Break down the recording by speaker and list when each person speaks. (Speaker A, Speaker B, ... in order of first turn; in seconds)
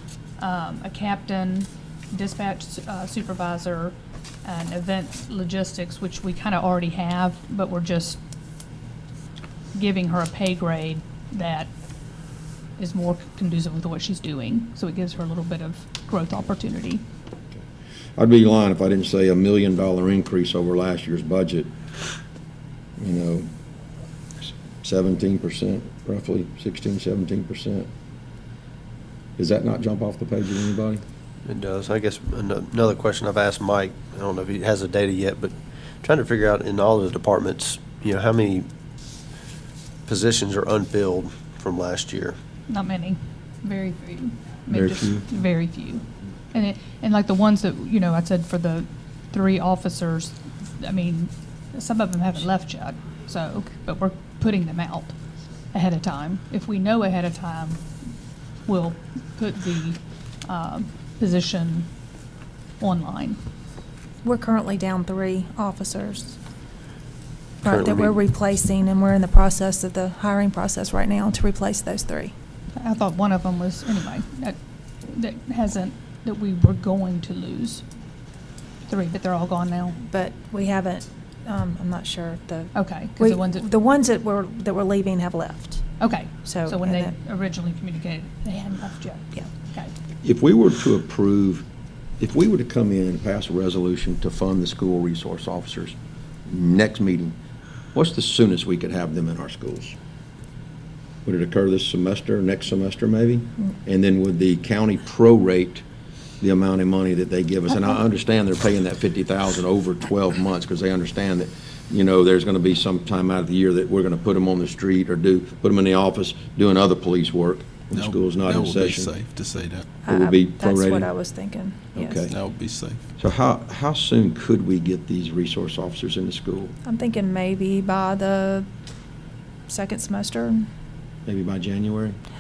Speaker A: 0.4-8.2, 9.8-11.7, 12.8-17.0, 42.7-55.1, 55.7-57.8, 58.7-61.9, 62.8-63.4, 72.8-74.6, 75.1-77.8, 78.9-80.0, 82.7-83.7, 86.0-89.9
Speaker B: 18.2-21.7, 23.0-23.5, 24.8-27.9, 29.4-31.0, 44.7-45.3, 90.2-91.7, 92.2-96.0, 96.5-97.4, 97.9-100.0, 101.2-105.8, 106.4-119.1, 120.1-121.1, 122.0-122.4, 123.2-126.7, 131.3-132.2
Speaker C: 31.5-38.7, 40.1-42.4, 67.6-68.2
Speaker D: 64.2-66.4, 67.6-72.3, 80.0-85.9, 86.5-87.1, 120.1-122.3, 126.8-128.7, 129.7-130.7
Speaker E: 117.9-119.9, 122.3-123.0